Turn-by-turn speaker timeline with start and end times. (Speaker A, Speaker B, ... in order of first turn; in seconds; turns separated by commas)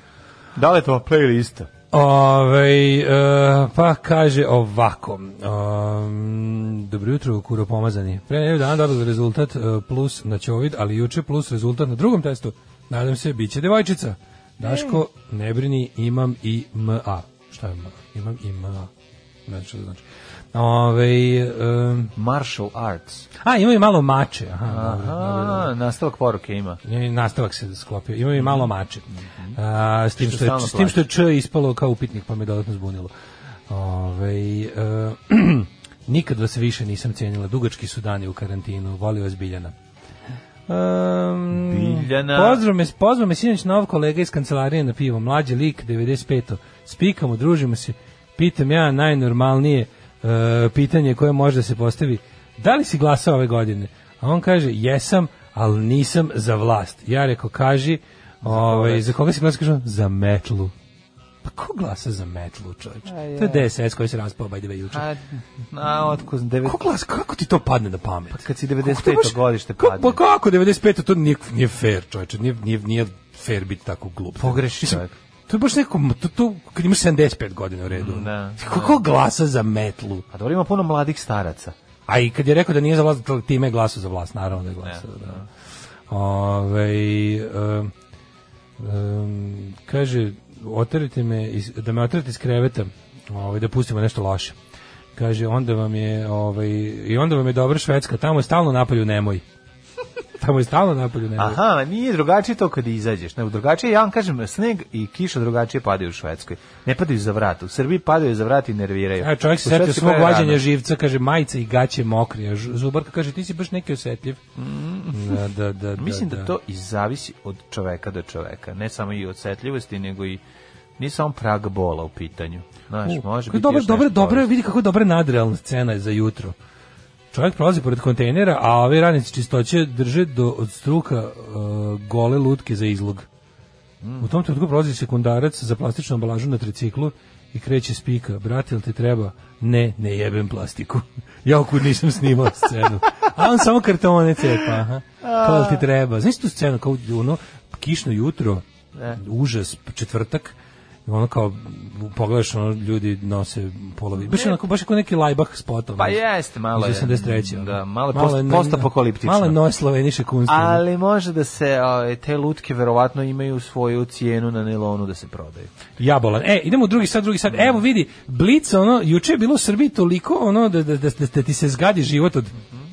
Speaker A: 0.6-1.7, Speaker B: 1.9-18.9, Speaker A: 14.6-15.0, Speaker B: 19.5-22.1, Speaker A: 22.1-23.3, Speaker B: 23.4-25.7, Speaker A: 24.7-26.8, Speaker B: 26.8-33.1, Speaker A: 28.4-29.6, Speaker A: 30.2-31.0, Speaker B: 33.7-39.7, Speaker B: 40.7-60.7, Speaker A: 41.5-42.6, Speaker A: 58.4-59.1, Speaker B: 61.4-65.1, Speaker A: 63.1-63.7, Speaker A: 64.9-66.9, Speaker B: 66.6-80.2, Speaker A: 68.3-70.2, Speaker A: 74.4-75.1, Speaker A: 77.9-79.0, Speaker A: 80.3-81.7, Speaker B: 82.1-85.4, Speaker A: 84.8-85.4, Speaker B: 86.1-87.9, Speaker B: 88.8-94.5, Speaker B: 95.2-99.4, Speaker B: 100.4-101.6, Speaker A: 101.4-110.6, Speaker B: 109.2-114.4, Speaker A: 114.6-115.4, Speaker B: 115.1-116.5, Speaker A: 116.0-120.4, Speaker A: 121.0-124.5, Speaker B: 123.0-126.5, Speaker B: 127.3-133.2, Speaker A: 134.0-134.3, Speaker B: 134.2-148.6, Speaker A: 145.2-145.8, Speaker B: 149.1-150.5, Speaker B: 151.1-156.2, Speaker A: 154.2-154.6, Speaker A: 156.0-159.6, Speaker B: 156.7-160.8, Speaker A: 160.4-165.7, Speaker B: 166.0-172.5